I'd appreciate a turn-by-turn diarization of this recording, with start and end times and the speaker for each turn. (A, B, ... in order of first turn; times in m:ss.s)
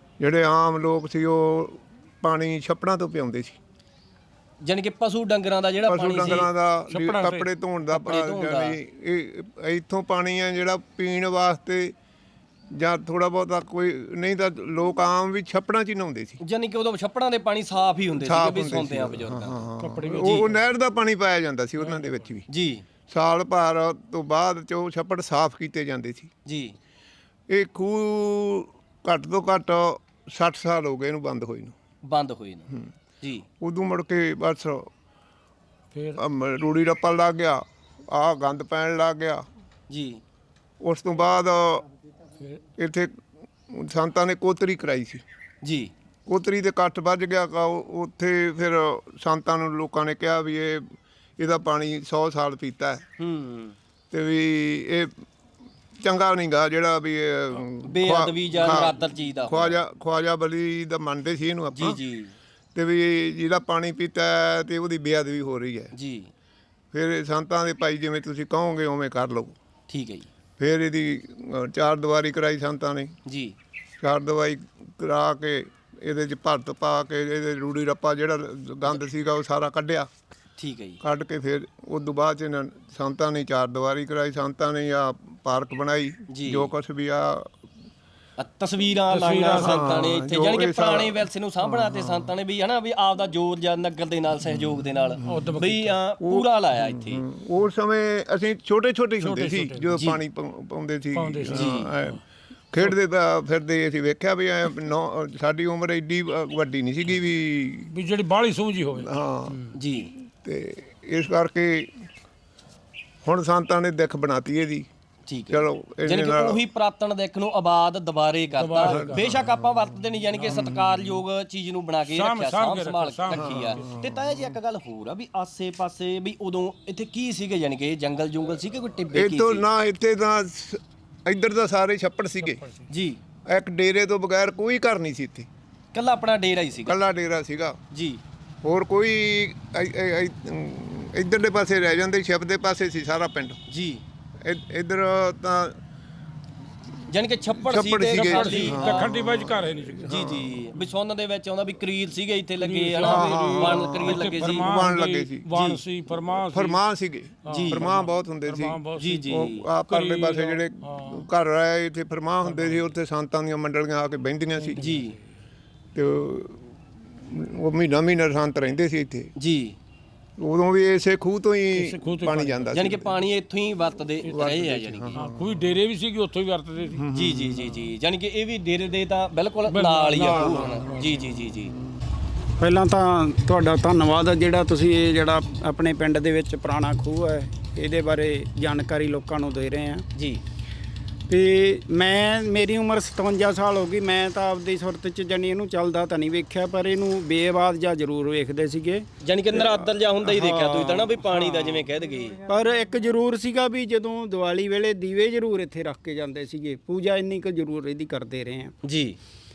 0:00.2-0:03.6 A
0:04.6-0:06.5 B
0:05.9-0:12.0 A
0:06.4-0:07.5 C
0:07.9-0:08.8 B
0:12.7-0:16.4 A
0:16.4-0:19.6 B
0:18.2-0:22.5 A
0:19.8-0:20.6 C
0:22.5-0:22.8 B
0:23.1-0:26.3 A
0:26.4-0:26.8 B
0:27.5-0:31.8 A
0:32.0-0:33.5 B
0:33.6-0:34.9 A
0:35.9-0:36.2 C
0:36.2-0:39.4 A
0:39.9-0:40.2 B
0:40.8-0:41.8 A
0:42.8-0:45.2 A
0:45.6-0:45.9 B
0:46.3-0:53.0 A
0:53.2-0:53.8 B
0:54.1-0:55.2 A
0:56.0-1:02.0 A
0:57.8-0:59.8 B
1:01.8-1:02.4 B
1:02.8-1:05.9 A
1:05.9-1:06.3 B
1:06.9-1:09.6 A
1:09.9-1:10.3 B
1:10.6-1:13.1 A
1:13.3-1:13.6 B
1:14.0-1:20.1 A
1:20.6-1:21.0 B
1:21.0-1:27.5 A
1:26.3-1:26.7 B
1:28.4-1:37.2 B
1:29.1-1:29.9 C
1:29.6-1:32.3 A
1:34.5-1:35.4 A
1:35.2-1:36.0 C
1:36.2-1:42.2 A
1:39.2-1:40.2 C
1:41.2-1:42.2 C
1:41.5-1:41.9 B
1:42.7-1:47.9 A
1:47.9-1:49.8 C
1:49.0-1:49.6 A
1:49.8-1:50.1 B
1:50.2-1:52.0 A
1:53.2-1:54.9 A
1:55.3-2:09.6 B
1:55.5-1:56.6 A
1:58.6-1:59.3 C
1:58.8-1:59.8 A
2:00.4-2:00.8 C
2:00.5-2:00.8 A
2:02.1-2:03.9 C
2:03.3-2:04.6 A
2:09.1-2:12.6 A
2:12.9-2:13.2 B
2:13.5-2:15.5 A
2:15.9-2:17.0 B
2:16.9-2:17.8 A
2:17.9-2:18.2 B
2:18.6-2:23.6 A
2:23.7-2:24.0 B
2:24.4-2:25.8 A
2:27.1-2:29.1 B
2:27.6-2:30.6 A
2:28.1-2:30.2 C
2:30.1-2:34.9 B
2:32.6-2:36.8 C
2:33.0-2:35.5 A
2:35.5-2:35.8 B
2:36.3-2:44.8 A
2:37.4-2:41.3 C
2:37.5-2:37.9 B
2:39.0-2:39.7 B
2:42.5-2:42.8 C
2:44.6-2:45.2 C
2:44.8-2:45.2 B
2:45.9-2:49.3 A
2:49.4-2:49.8 B
2:50.4-2:53.2 A
2:51.7-2:52.9 C
2:52.7-2:55.2 B
2:54.3-2:55.6 A
2:55.1-2:57.0 C
2:57.0-2:57.9 A
2:57.1-3:01.7 B
2:59.7-3:01.3 C
3:00.3-3:00.8 A
3:02.6-3:10.1 D
3:10.2-3:10.4 B
3:11.3-3:21.9 D
3:19.2-3:22.4 B
3:22.4-3:28.7 D
3:28.8-3:29.2 B